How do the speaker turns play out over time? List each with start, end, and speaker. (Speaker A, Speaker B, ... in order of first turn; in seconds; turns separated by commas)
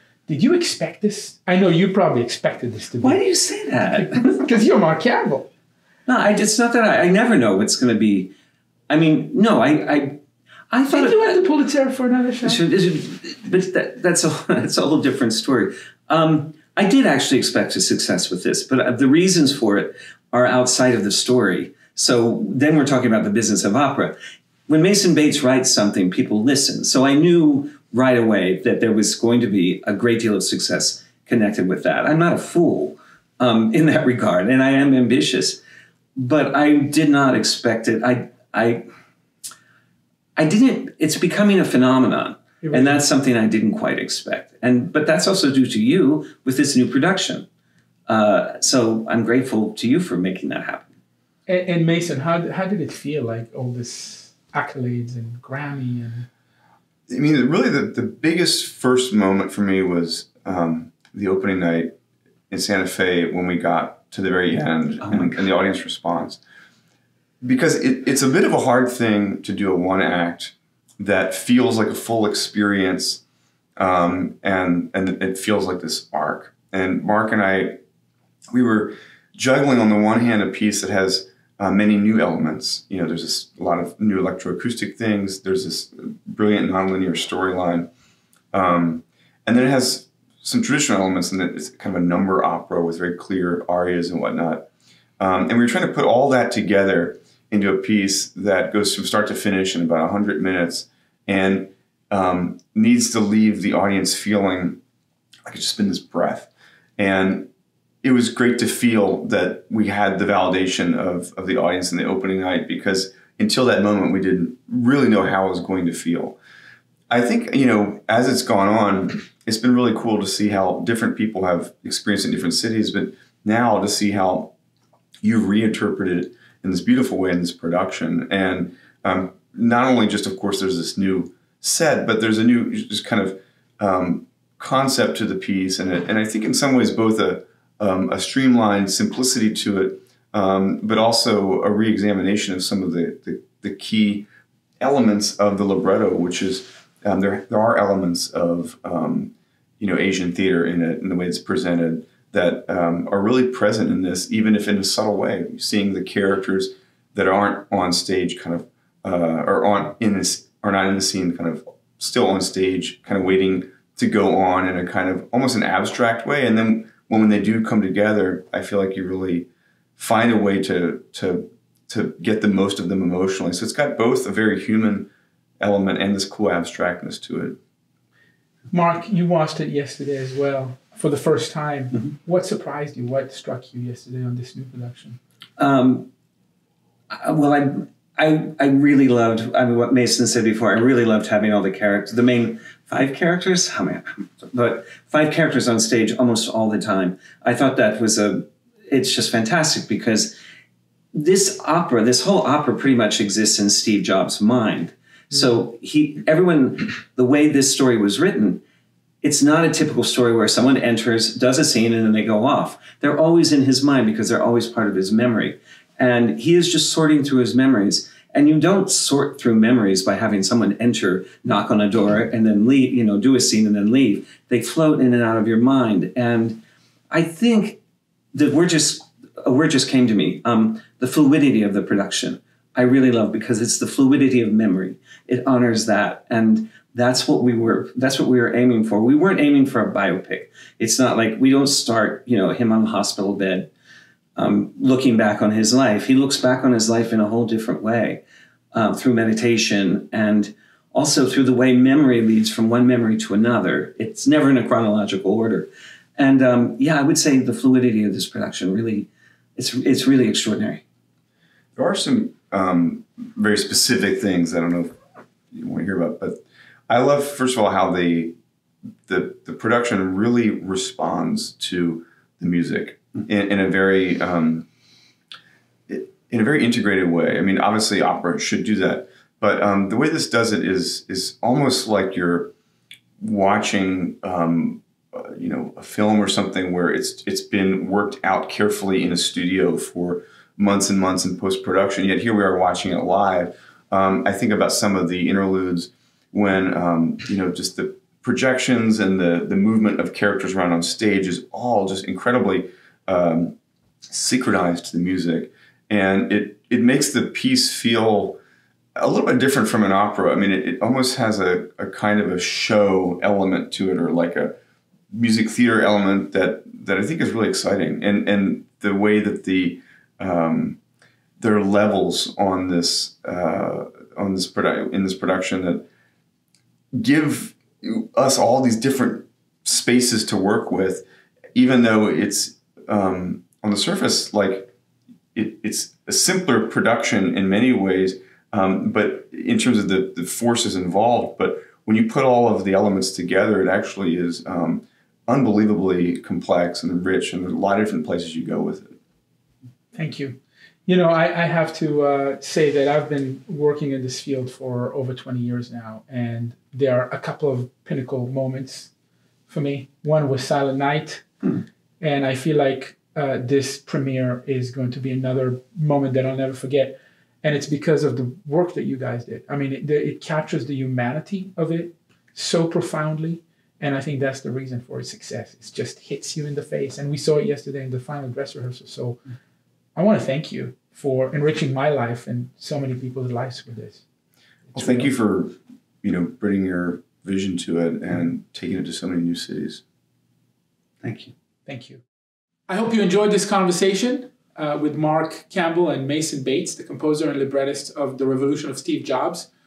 Speaker A: 0.3-3.2, Speaker B: 3.0-4.3, Speaker A: 3.8-5.5, Speaker B: 6.1-8.3, Speaker B: 8.9-10.2, Speaker B: 10.7-11.4, Speaker A: 10.9-12.6, Speaker B: 12.4-24.1, Speaker B: 24.7-35.6, Speaker B: 36.2-38.9, Speaker B: 40.4-47.5, Speaker A: 42.6-43.0, Speaker B: 48.1-50.9, Speaker A: 51.5-56.3, Speaker C: 57.1-61.9, Speaker C: 62.5-66.4, Speaker B: 65.0-65.4, Speaker C: 67.4-73.2, Speaker C: 73.8-77.8, Speaker C: 78.5-87.9, Speaker C: 88.5-94.7, Speaker C: 95.2-104.8, Speaker C: 105.5-107.5, Speaker C: 108.0-116.4, Speaker C: 117.1-124.5, Speaker C: 125.2-144.3, Speaker C: 144.8-175.1, Speaker C: 175.6-177.6, Speaker A: 178.7-185.2, Speaker B: 185.6-186.1, Speaker B: 187.1-200.3, Speaker B: 201.1-208.6, Speaker B: 209.2-226.6, Speaker B: 227.1-227.8, Speaker B: 228.3-243.7, Speaker B: 244.3-248.2, Speaker B: 248.7-260.8, Speaker C: 261.8-264.9, Speaker C: 265.5-268.4, Speaker C: 269.1-274.6, Speaker C: 275.9-282.5, Speaker C: 283.2-303.6, Speaker C: 304.1-308.4, Speaker C: 308.9-314.5, Speaker C: 315.1-320.8, Speaker C: 321.4-325.9, Speaker C: 326.9-334.7, Speaker C: 335.3-348.9, Speaker A: 349.9-358.9, Speaker A: 359.5-361.2, Speaker A: 362.0-379.2, Speaker A: 379.9-384.0, Speaker A: 384.7-385.1, Speaker C: 384.7-389.8, Speaker B: 391.0-391.3, Speaker A: 391.6-392.0, Speaker A: 392.7-399.5